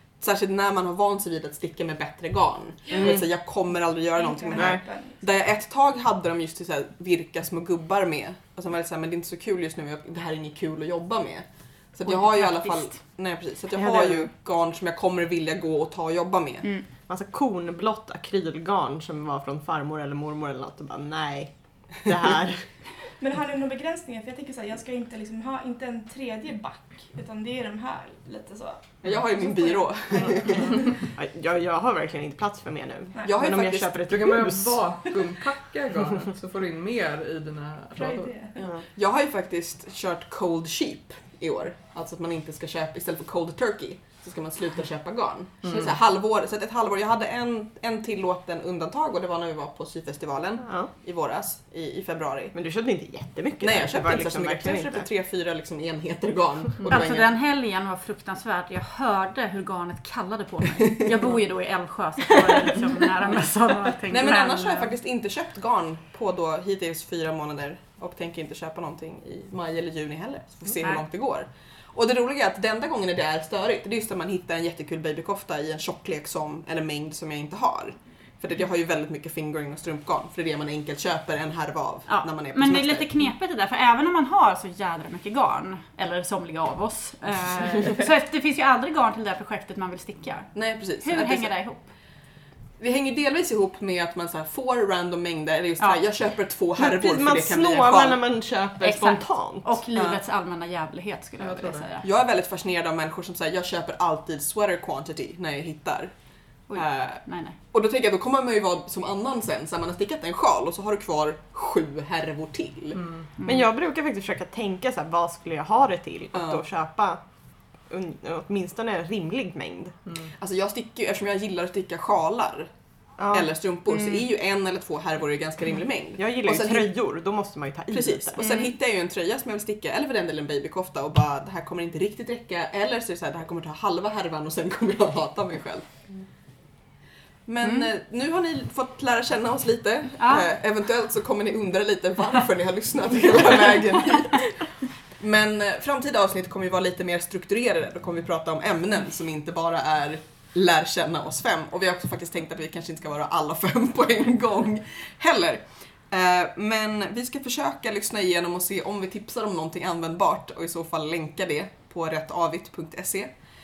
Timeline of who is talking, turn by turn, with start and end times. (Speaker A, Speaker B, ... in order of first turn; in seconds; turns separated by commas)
Speaker A: 0.2-16.7, Speaker B: 2.9-3.3, Speaker C: 4.2-5.2, Speaker B: 4.5-4.8, Speaker D: 12.1-12.9, Speaker B: 13.7-14.3, Speaker B: 17.1-22.7, Speaker C: 23.2-30.9, Speaker A: 29.0-30.8, Speaker B: 30.5-35.2, Speaker A: 33.2-34.2, Speaker E: 34.1-38.4, Speaker C: 38.0-38.6, Speaker B: 38.6-38.8, Speaker A: 39.0-52.5, Speaker E: 45.6-46.0, Speaker B: 50.6-50.9, Speaker B: 52.5-55.1, Speaker A: 53.6-57.3, Speaker D: 56.9-64.9, Speaker A: 64.1-83.1, Speaker D: 82.1-91.9, Speaker A: 90.5-91.5, Speaker A: 92.8-98.2, Speaker B: 96.8-99.8, Speaker D: 98.8-102.1, Speaker E: 101.4-101.9, Speaker A: 102.0-106.1, Speaker D: 106.7-107.5, Speaker A: 106.7-113.0, Speaker E: 113.0-113.3, Speaker B: 113.4-117.2, Speaker A: 116.3-116.6, Speaker B: 117.9-120.0, Speaker A: 120.4-122.7, Speaker B: 123.2-123.5, Speaker A: 123.3-126.9, Speaker B: 126.2-128.6, Speaker A: 127.9-135.9, Speaker A: 137.5-144.7, Speaker D: 140.2-140.5, Speaker A: 145.2-163.3